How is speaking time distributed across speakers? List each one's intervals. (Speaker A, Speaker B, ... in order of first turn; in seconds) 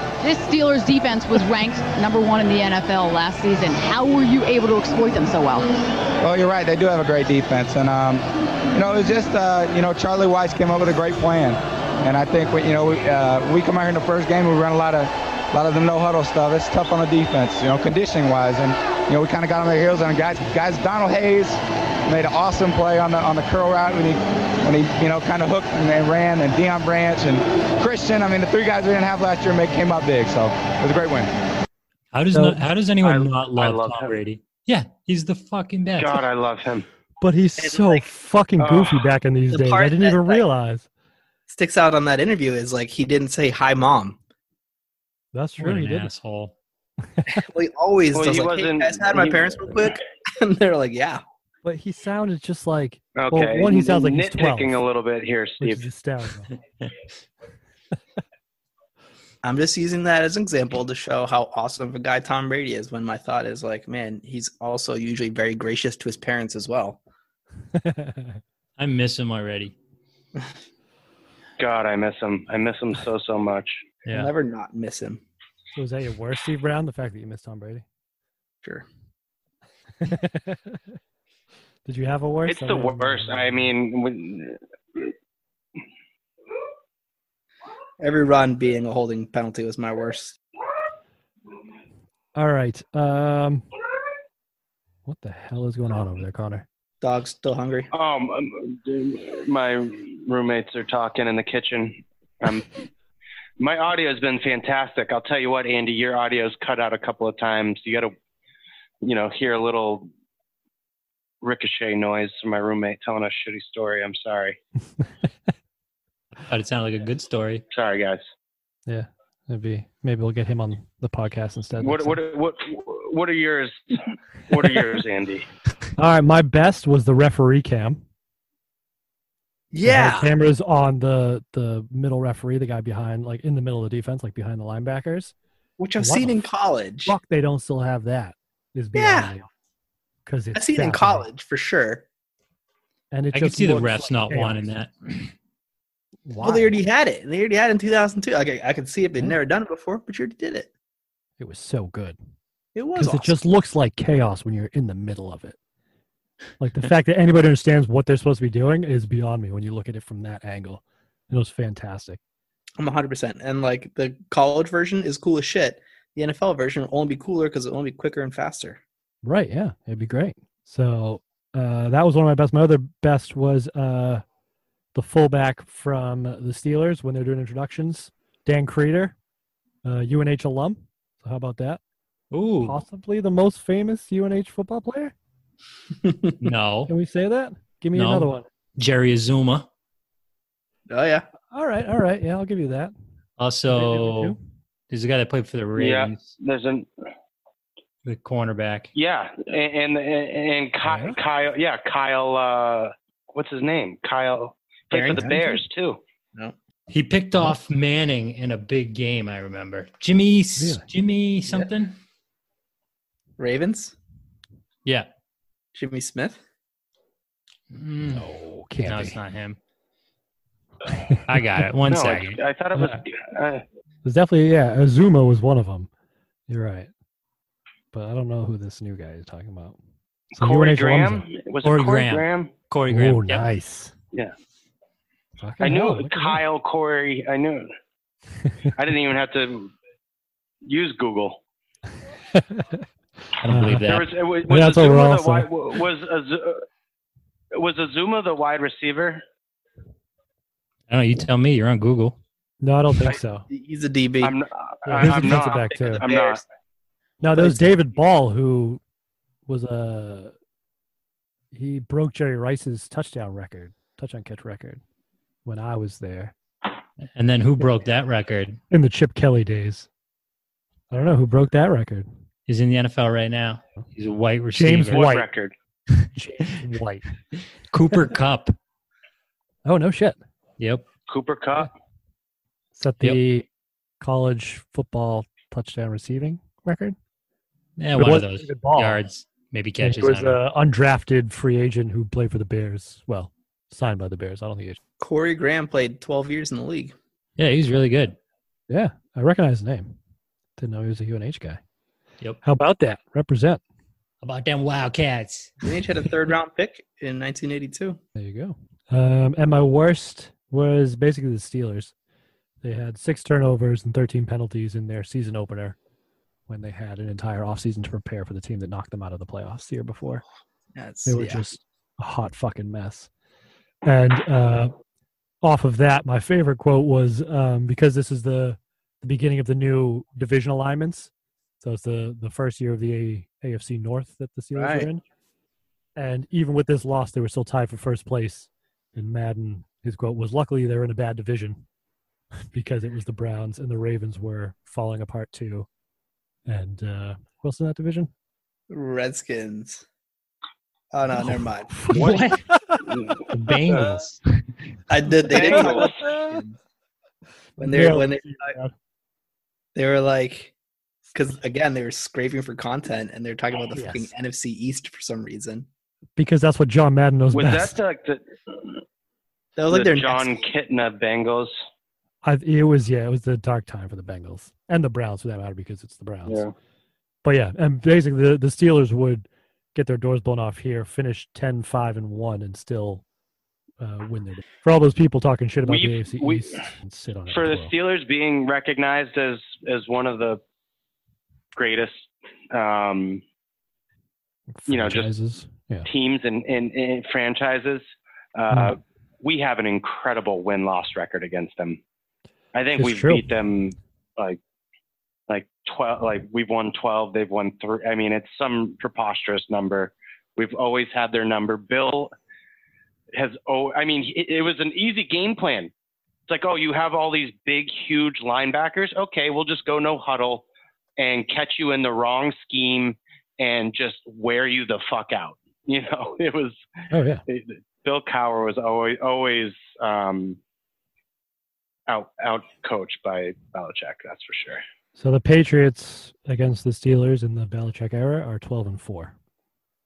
Speaker A: 0.2-5.7
Speaker B: 6.2-31.3
Speaker C: 32.1-36.2, 45.6-46.5, 68.8-69.7, 116.5-117.6, 143.3-145.3, 182.3-182.8, 186.4-186.9, 187.9-189.7, 193.4-194.4, 194.9-196.3, 198.0-198.9, 206.9-212.0, 217.7-218.3, 218.8-219.6, 221.2-222.4, 231.6-233.5, 243.4-244.1, 250.9-252.2, 267.1-268.6, 272.5-275.1, 277.7-278.5, 280.6-280.9, 287.8-290.4, 297.4-298.2, 304.2-305.6, 351.9-352.4, 353.3-354.4
Speaker D: 32.3-32.6, 37.2-40.9, 45.3-46.1, 51.6-54.8, 55.6-56.5, 67.7-68.4, 75.7-77.8, 80.0-80.8, 81.8-83.7, 92.3-93.6, 95.0-96.7, 118.9-122.2, 126.0-128.0, 129.8-135.3, 136.0-136.3, 137.0-139.5, 140.2-141.2, 143.1-144.6, 146.2-146.7, 151.4-152.2, 153.0-155.6, 156.6-162.2, 169.2-174.2, 174.9-179.1, 179.8-181.8, 182.6-185.1, 186.9-188.5, 191.5-192.9, 193.7-194.4, 200.8-201.2, 210.6-210.8, 218.1-219.2, 222.7-223.0, 224.0-225.9, 226.5-226.9, 227.9-229.8, 230.3-231.2, 232.9-233.9, 235.4-236.4, 242.3-242.8, 243.5-243.8, 244.4-245.5, 252.6-253.4, 254.8-256.0, 257.2-258.8, 259.5-260.3, 261.5-264.8, 265.4-266.3, 268.7-269.9, 270.9-272.1, 274.5-275.3, 276.1-277.0, 279.6-280.2, 282.8-283.5, 284.0-286.9, 287.9-289.0, 289.8-294.8, 298.7-299.9, 300.6-301.6, 302.4-303.6, 308.1-311.9, 312.6-315.8, 316.5-320.2, 321.1-323.1, 323.8-324.7, 325.4-331.1, 331.6-335.0, 335.9-341.6, 342.5-345.7, 346.4-348.1, 351.1-352.8, 355.5-356.4, 357.6-358.7, 363.7-364.1, 366.2-367.8, 372.2-376.4, 377.2-383.0, 383.8-387.7, 394.5-395.9, 398.5-398.8, 402.7-403.2, 426.9-427.2, 434.9-439.1
Speaker E: 33.0-34.2, 36.0-36.9, 38.6-39.0, 48.1-49.9, 53.2-55.8, 71.6-73.8, 82.5-85.1, 97.9-102.7, 103.6-108.1, 109.0-110.1, 111.4-114.6, 117.7-118.2, 121.8-125.5, 195.8-196.9, 198.9-206.0, 221.9-223.6, 230.3-232.5, 235.6-237.7, 238.7-239.7, 240.6-241.4, 243.8-246.6, 247.5-249.2, 254.2-256.4, 274.9-275.5, 281.1-281.7, 355.3-356.0, 367.3-368.8, 369.7-371.5, 376.2-376.5, 385.6-386.6, 387.3-390.4, 391.5-393.2, 394.7-395.1, 395.9-397.8, 398.4-401.8, 402.5-404.4, 405.3-412.1, 413.1-415.7, 416.3-420.4, 421.0-426.6, 427.3-430.4, 431.9-434.6
Speaker F: 37.6-38.0, 39.5-40.4, 41.5-44.2, 47.3-51.2, 59.4-67.0, 74.1-75.2, 88.0-90.4, 97.0-97.9, 129.7-130.3, 135.8-137.2, 138.9-139.3, 140.5-142.0, 146.4-150.7, 152.7-153.3, 162.8-168.8, 190.9-191.3, 204.9-205.6, 213.4-213.9, 215.7-216.4, 253.5-254.3, 255.0-256.4, 257.3-257.7, 295.0-296.9, 305.6-308.0, 320.7-321.4, 334.6-334.9, 348.7-349.8, 350.9-351.8, 354.9-356.6, 357.6-358.5, 359.8-360.5, 361.1-365.6, 369.6-370.4